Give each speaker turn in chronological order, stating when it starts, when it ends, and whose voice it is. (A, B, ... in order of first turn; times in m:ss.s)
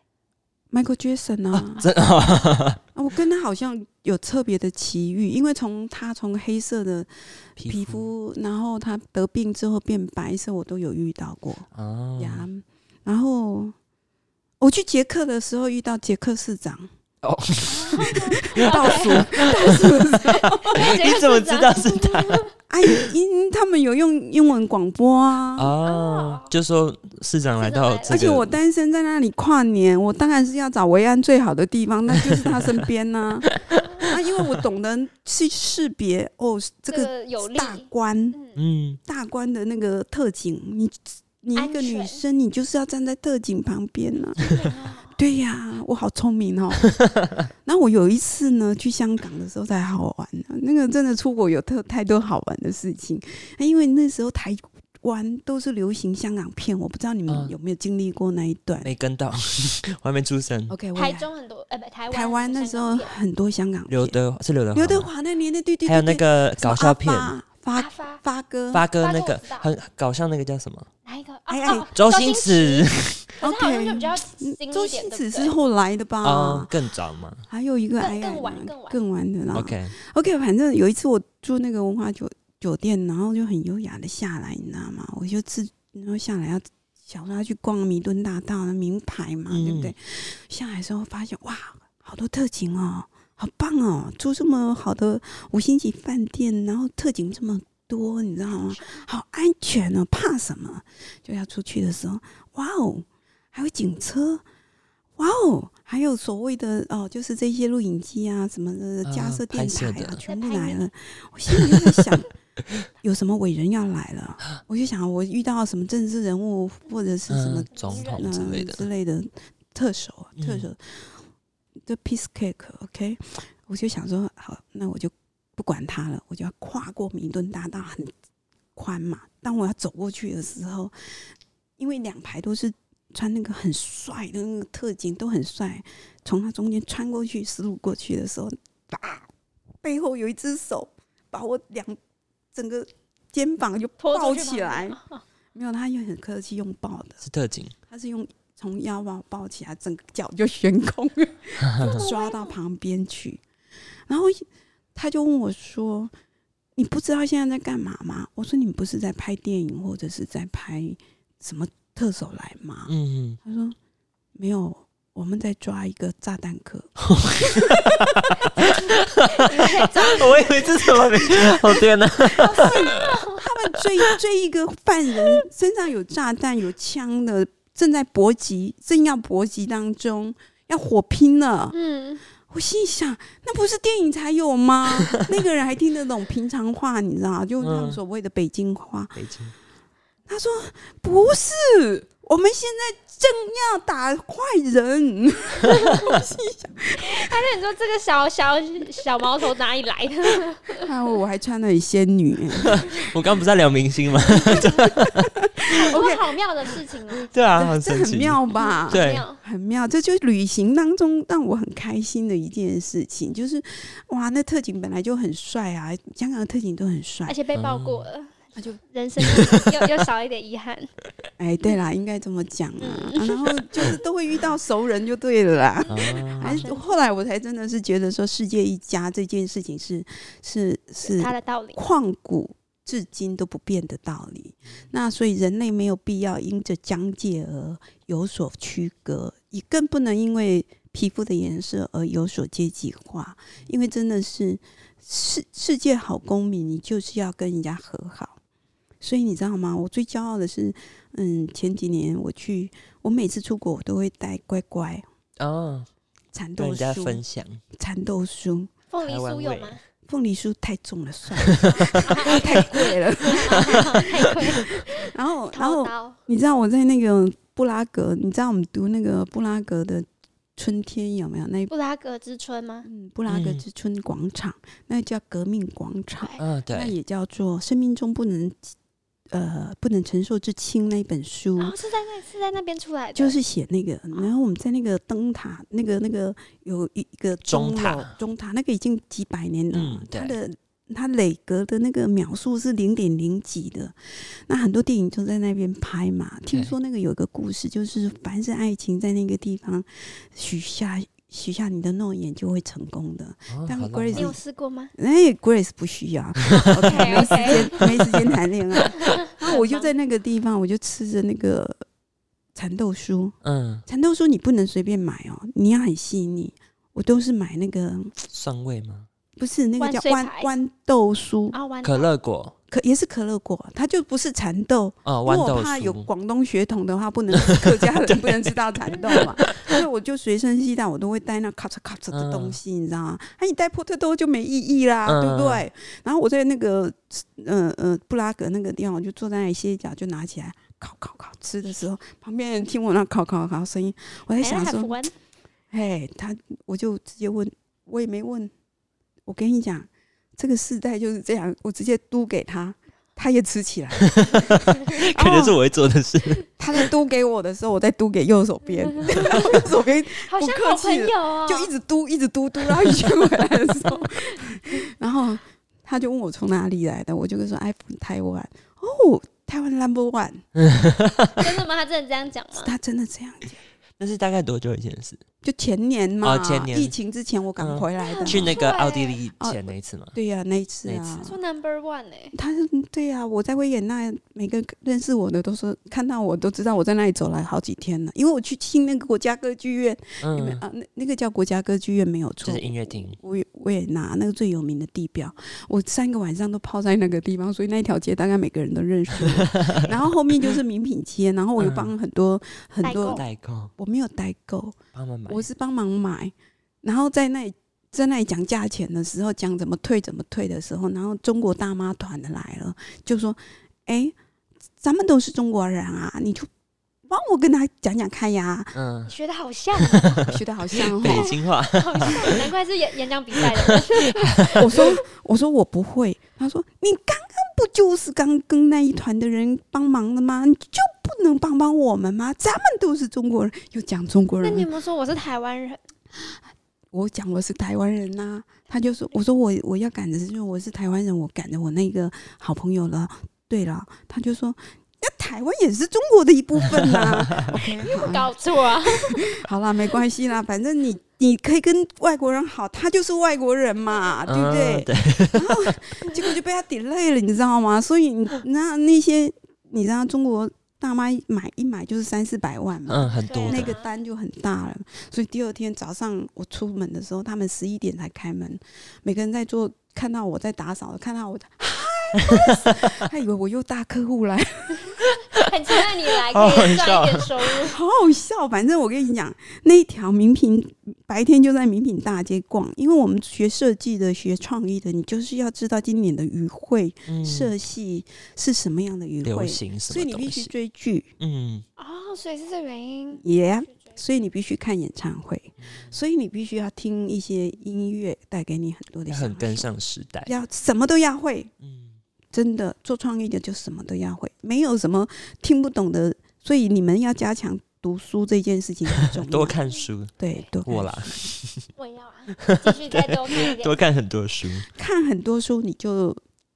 0:00.7-0:01.9 A
0:01.5-0:02.8 B
0:03.0-0:07.1 A
0:07.6-0:08.1 B
0:07.6-0:13.8 A
0:11.7-0:12.5 B
0:14.6-0:16.9 A
0:17.2-0:23.1 B
0:17.7-0:22.5 C
0:18.0-0:20.8 A
0:22.7-0:25.7 A
0:25.6-0:28.5 B
0:25.8-0:26.5 C
0:27.6-0:28.3 C
0:28.1-0:38.4 A
0:32.1-0:32.8 B
0:33.5-0:34.1 B
0:36.9-0:38.6 C
0:38.6-0:39.0 B
0:39.0-0:46.9 A
0:41.6-0:42.2 C
0:44.4-0:45.2 C
0:47.0-0:47.4 B
0:47.6-0:58.9 A
0:57.3-0:57.5 B
0:58.8-1:00.8 B
1:00.7-1:01.3 A
1:01.0-1:03.1 C
1:02.1-1:04.2 A
1:03.9-1:05.1 B
1:04.7-1:08.9 A
1:05.9-1:07.3 B
1:07.8-1:08.2 C
1:08.7-1:10.9 B
1:09.0-1:09.7 C
1:11.0-1:15.6 C
1:11.5-1:11.9 A
1:12.0-1:13.3 B
1:13.4-1:16.8 A
1:16.2-1:17.5 B
1:17.5-1:44.4 A
1:18.0-1:19.0 C
1:19.5-1:19.9 B
1:29.5-1:29.9 B
1:38.5-1:39.0 C
1:45.2-1:52.3 A
1:49.0-1:50.2 B
1:50.2-1:50.9 C
1:51.5-1:52.0 B
1:53.0-2:01.2 A
1:57.3-1:58.9 B
1:57.7-1:58.4 C
2:00.4-2:00.7 B
2:01.9-2:08.1 A
2:08.8-2:10.9 A
2:11.8-2:19.3 A
2:19.8-2:22.0 A
2:22.5-2:25.0 A
2:24.0-2:25.2 C
2:25.5-2:27.2 A
2:27.2-2:27.8 B
2:27.9-2:33.4 A
2:31.6-2:32.0 B
2:31.8-2:32.6 C
2:34.1-2:36.1 A
2:36.8-2:43.8 A
2:42.9-2:43.4 B
2:44.4-2:48.7 A
2:47.1-2:53.2 B
2:49.4-2:50.9 C
2:49.8-2:50.5 A
2:52.4-2:53.4 C
2:52.4-3:01.8 A
3:01.7-3:02.2 C
3:02.5-3:09.2 A
3:07.6-3:08.0 B
3:09.2-3:09.5 B
3:10.3-3:17.4 A
3:17.0-3:20.9 C
3:20.8-3:22.9 A
3:22.6-3:25.4 B
3:24.4-3:24.7 C
3:24.5-3:26.3 A
3:25.7-3:27.3 C
3:27.3-3:29.3 B
3:27.6-3:37.4 A
3:28.6-3:29.4 C
3:37.3-3:40.9 C
3:37.5-3:38.1 B
3:39.2-3:39.9 B
3:41.4-4:08.4 A
3:42.8-3:43.8 C
3:45.8-3:46.9 C
3:45.9-3:46.7 B
3:51.0-3:51.8 C
4:09.0-4:15.0 A
4:15.4-4:15.9 B
4:16.3-4:17.2 A
4:16.6-4:17.6 B
4:17.8-4:18.7 A
4:18.9-4:19.8 C
4:19.0-4:19.8 B
4:20.1-4:31.7 A
4:21.4-4:22.5 B
4:21.7-4:26.2 C
4:23.7-4:24.4 B
4:31.7-4:32.9 C
4:32.9-4:38.7 A
4:33.3-4:33.6 B
4:36.4-4:37.0 B
4:39.3-4:41.8 A
4:41.6-4:43.4 C
4:43.2-5:04.4 A
4:47.4-4:48.2 B
4:49.7-4:50.4 B
5:03.5-5:04.4 B
5:04.1-5:04.9 C
5:05.0-5:11.8 A
5:06.5-5:08.2 B
5:06.6-5:07.8 C
5:08.9-5:09.9 C
5:12.6-5:18.2 A
5:13.4-5:13.8 B
5:18.3-5:19.1 B
5:19.4-5:21.6 A
5:19.8-5:20.5 C
5:21.5-5:22.1 C
5:21.8-5:22.6 B
5:22.7-5:45.0 A
5:25.0-5:26.1 B
5:27.3-5:29.8 B
5:32.1-5:32.6 B
5:35.1-5:35.6 B
5:44.4-5:45.1 C
5:45.7-5:48.5 A
5:49.3-5:55.6 A
5:54.1-5:56.8 B
5:56.6-6:10.4 A
5:59.0-5:59.7 C
6:00.2-6:01.7 C
6:10.6-6:11.6 B
6:11.4-6:12.7 C
6:12.6-6:13.6 A
6:14.0-6:15.2 B
6:15.4-6:18.6 A
6:16.2-6:16.9 B
6:17.6-6:20.2 B
6:18.0-6:19.2 C
6:20.1-6:21.4 A
6:21.2-6:22.3 C
6:22.3-6:43.2 A
6:30.2-6:30.6 B
6:32.4-6:33.2 B
6:39.2-6:39.9 B
6:41.6-6:41.9 B
6:42.8-6:43.2 C
6:43.0-6:43.7 B
6:43.8-6:44.8 A
6:44.9-6:45.5 B
6:45.3-6:54.2 A
6:54.8-6:56.5 A
6:57.1-6:58.8 A
6:58.7-6:59.1 B
6:59.1-7:00.3 C
6:59.8-7:02.5 B
7:00.3-7:01.3 A
7:00.9-7:04.9 C
7:03.3-7:04.9 B
7:04.5-7:14.7 A
7:14.4-7:15.8 C
7:16.9-7:54.9 A
7:26.8-7:27.6 B
7:27.9-7:29.3 C
7:34.3-7:35.8 B
7:42.9-7:43.8 B
7:43.2-7:43.9 C
7:55.4-7:57.8 C
7:56.2-7:57.3 B
7:57.6-8:11.1 A
8:07.1-8:07.5 B
8:09.2-8:10.5 B
8:11.2-8:11.6 B
8:11.8-8:14.0 C
8:13.2-8:19.7 A
8:15.6-8:16.0 B
8:19.1-8:20.3 B
8:20.2-8:21.5 A
8:21.6-8:22.0 B
8:22.3-8:29.6 A
8:29.2-8:31.7 B
8:30.2-8:31.2 A
8:31.8-8:33.8 C
8:32.4-8:34.7 B
8:34.7-8:36.2 A